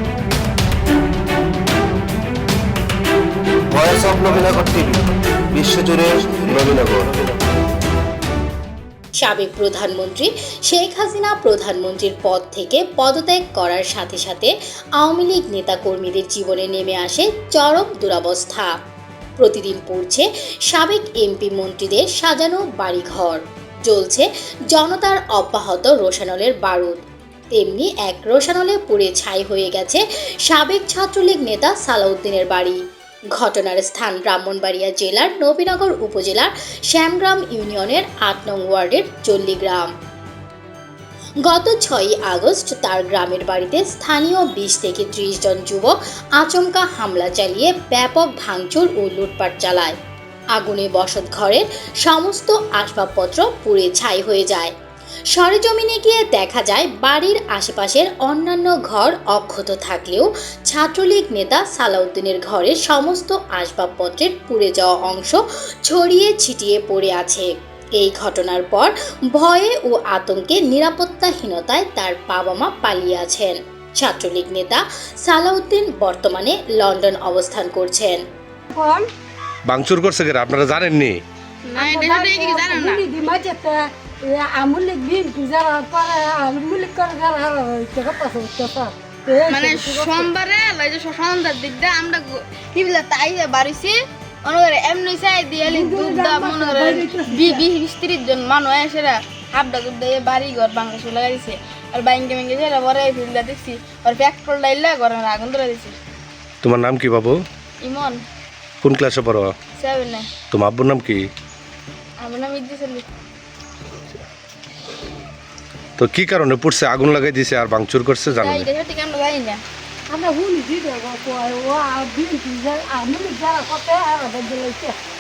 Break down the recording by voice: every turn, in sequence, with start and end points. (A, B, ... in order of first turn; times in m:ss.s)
0:03.7-0:05.0 A
0:05.5-0:07.3 A
0:09.2-0:18.7 B
0:19.4-0:32.8 B
0:33.4-0:39.9 B
0:41.4-0:50.0 B
0:50.6-0:54.7 B
0:55.3-1:18.2 B
1:18.7-1:19.1 C
1:19.7-1:21.2 D
1:21.7-1:23.0 E
1:21.8-1:30.3 C
1:29.5-1:46.0 E
1:35.7-1:37.6 C
1:46.6-1:47.4 D
1:47.8-1:48.2 E
1:48.8-1:49.6 D
1:49.8-1:50.3 E
1:50.5-1:51.2 D
1:52.2-1:53.1 E
1:56.0-1:58.7 D
1:58.4-1:59.6 E
2:00.1-2:05.0 C